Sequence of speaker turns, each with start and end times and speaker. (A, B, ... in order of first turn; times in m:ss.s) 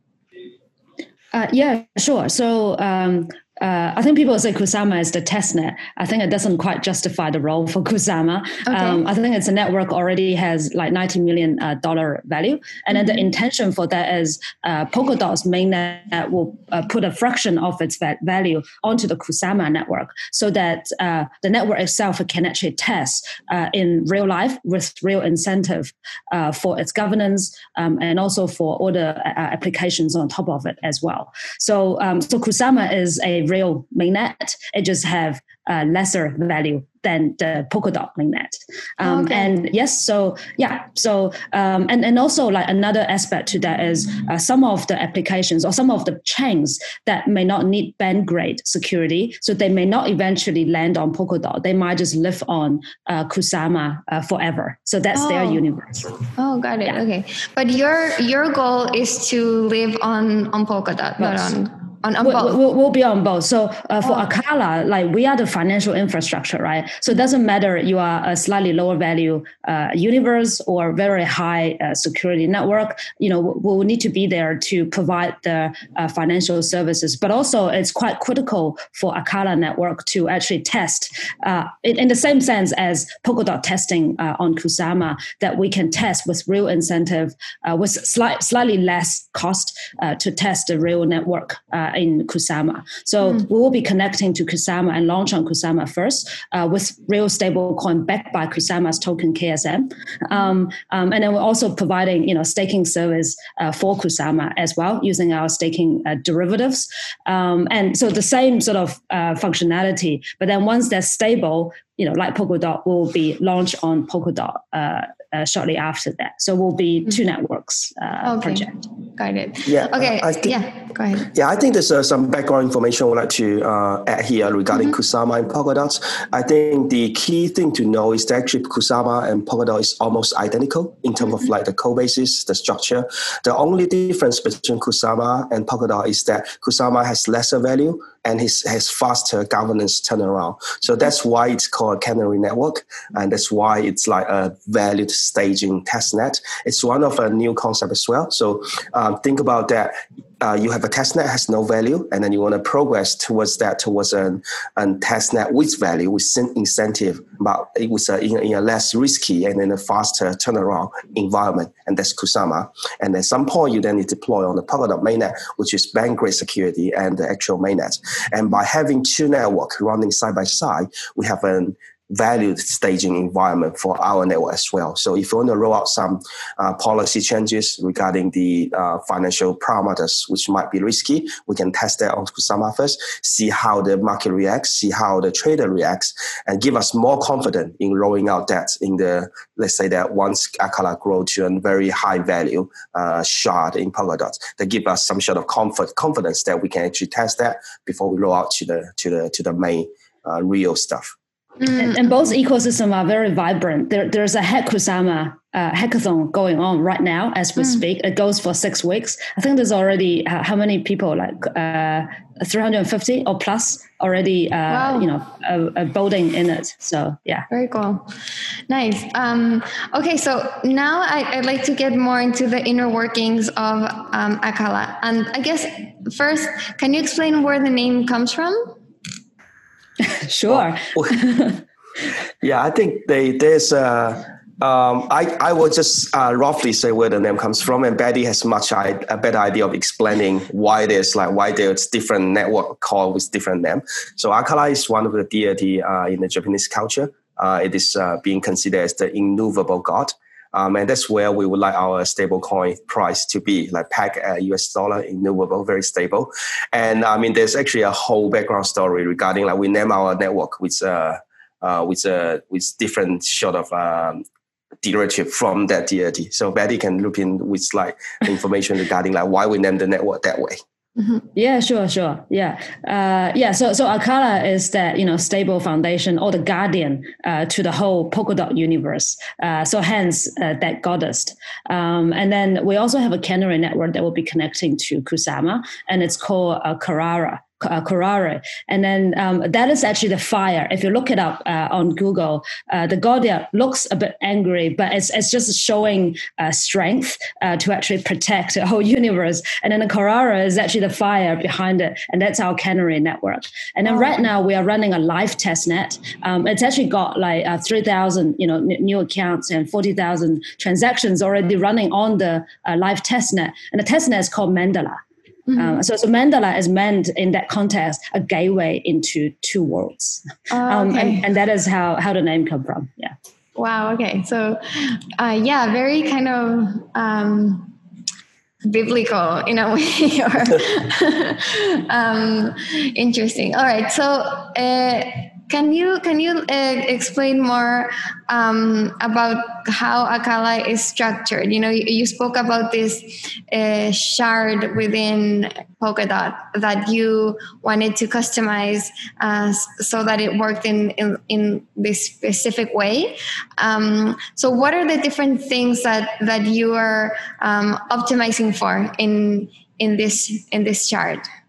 0:01.3-0:56.1 A
0:08.6-0:09.0 B
0:39.0-0:39.5 B
0:55.1-0:55.6 B
0:56.4-1:02.6 B
1:01.2-1:01.5 A
1:02.2-1:58.8 A
1:58.2-2:01.3 B
1:59.6-2:00.6 C
2:01.2-3:21.1 C
3:21.6-3:22.0 B
3:21.7-3:37.5 A
3:34.7-3:35.1 B
3:37.5-3:38.1 B
3:38.7-3:48.7 B
3:50.0-3:51.6 A
3:50.5-3:51.2 C
3:52.4-4:24.2 C
4:24.8-4:30.6 C
4:31.3-5:15.0 A
5:15.5-5:15.8 B
5:15.6-5:23.1 A
5:20.5-5:21.2 B
5:23.6-5:27.7 B
5:28.6-6:01.3 B